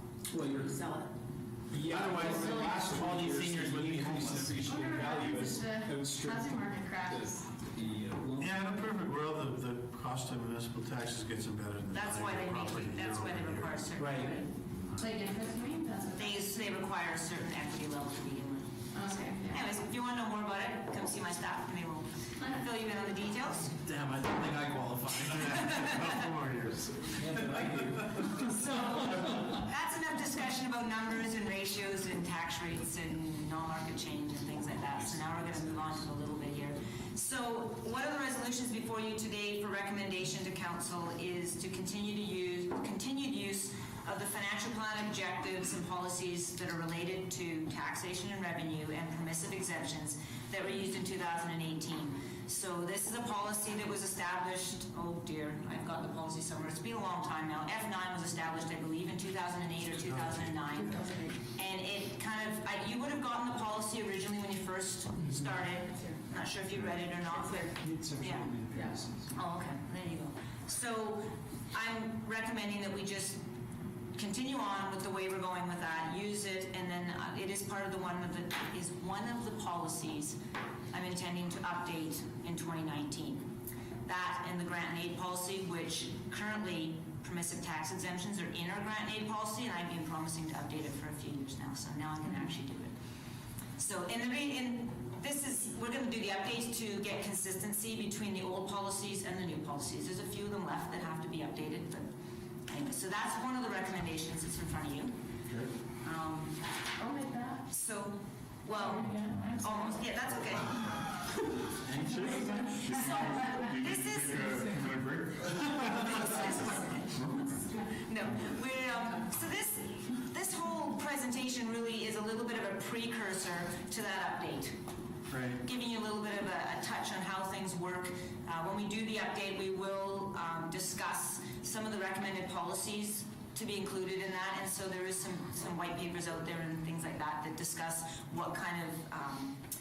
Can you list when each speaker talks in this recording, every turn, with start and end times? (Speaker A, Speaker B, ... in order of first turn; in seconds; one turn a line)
Speaker A: 0.3-0.8
Speaker B: 0.3-1.1
Speaker A: 1.7-8.6
Speaker C: 1.8-4.6
Speaker B: 2.3-3.1
Speaker B: 4.6-7.4
Speaker D: 8.4-13.9
Speaker E: 11.9-14.7
Speaker C: 14.0-14.3
Speaker B: 14.9-16.6
Speaker E: 16.1-23.7
Speaker B: 18.9-19.7
Speaker C: 23.8-26.1
Speaker D: 25.3-27.1
Speaker A: 27.1-29.5
Speaker E: 28.6-68.5
Speaker D: 60.0-60.6
Speaker B: 60.7-61.4
Speaker A: 65.2-65.6
Speaker B: 67.2-67.7
Speaker A: 67.7-69.3
Speaker B: 68.7-69.0
Speaker E: 69.3-73.4
Speaker E: 74.1-80.4
Speaker E: 80.9-83.5
Speaker E: 84.0-92.9
Speaker E: 93.8-102.1
Speaker E: 102.7-105.1
Speaker F: 105.4-105.7
Speaker E: 106.0-106.6
Speaker B: 107.0-107.6
Speaker E: 107.7-111.0
Speaker B: 108.9-109.4
Speaker C: 111.8-113.2
Speaker F: 112.6-116.4
Speaker E: 112.8-114.8
Speaker E: 115.9-124.8
Speaker F: 117.1-117.5
Speaker D: 125.3-125.6
Speaker E: 125.6-139.6